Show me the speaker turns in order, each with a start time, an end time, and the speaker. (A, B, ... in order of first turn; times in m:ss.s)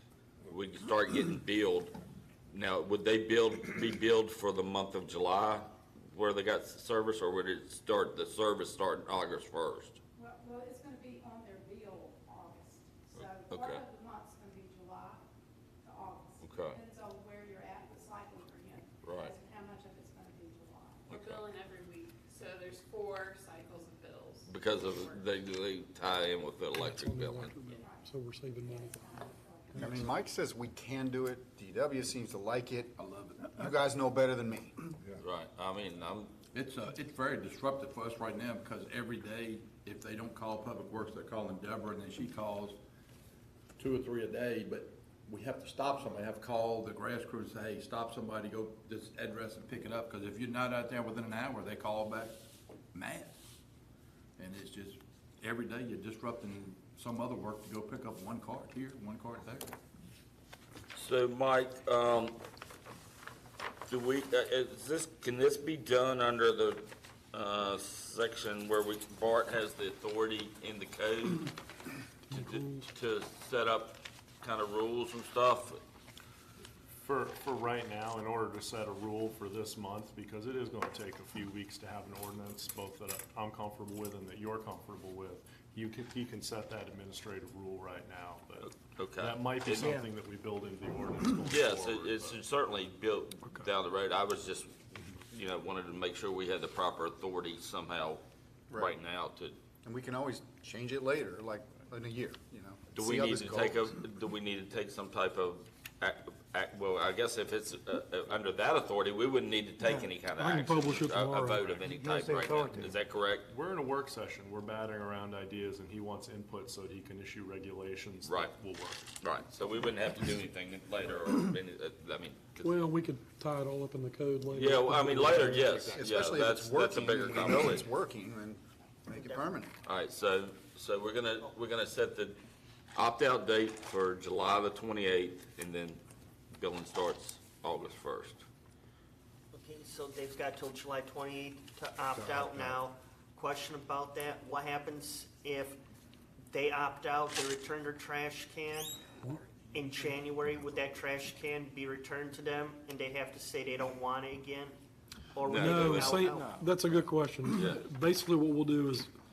0:00.5-0:01.9 A
0:02.5-0:10.0 A
0:10.2-0:15.3 B
0:13.2-0:13.8 A
0:15.8-0:21.1 B
0:16.4-0:16.8 A
0:19.0-0:19.3 A
0:21.1-0:21.5 A
0:21.1-0:25.2 C
0:24.5-0:27.5 A
0:26.8-0:29.0 D
0:27.7-0:30.2 B
0:29.7-0:30.1 D
0:29.8-0:32.9 E
0:33.0-0:33.7 F
0:33.5-0:34.8 E
0:35.2-0:36.4 A
0:36.5-0:42.8 F
0:43.8-0:52.4 F
0:52.9-0:53.4 F
0:54.4-0:59.8 F
1:00.9-1:02.4 A
1:03.9-1:11.6 A
1:12.3-1:12.9 D
1:12.3-1:15.8 A
1:17.0-1:32.4 G
1:28.9-1:30.0 A
1:31.5-1:39.6 A
1:38.7-1:39.0 E
1:39.8-1:43.9 E
1:43.0-1:53.5 A
1:50.4-1:51.8 D
1:53.5-1:59.1 G
1:58.2-1:58.6 A
1:59.2-2:02.8 A
2:02.6-2:05.7 D
2:04.5-2:07.9 A
2:05.8-2:09.7 E
2:09.1-2:09.5 H
2:09.8-2:12.4 A
2:13.0-2:16.0 A
2:16.5-2:18.4 A
2:19.5-2:25.8 H
2:26.5-2:29.0 H
2:29.6-2:34.8 H
2:35.3-2:36.7 H
2:35.5-2:36.2 A
2:35.6-2:39.1 D
2:37.5-2:37.8 A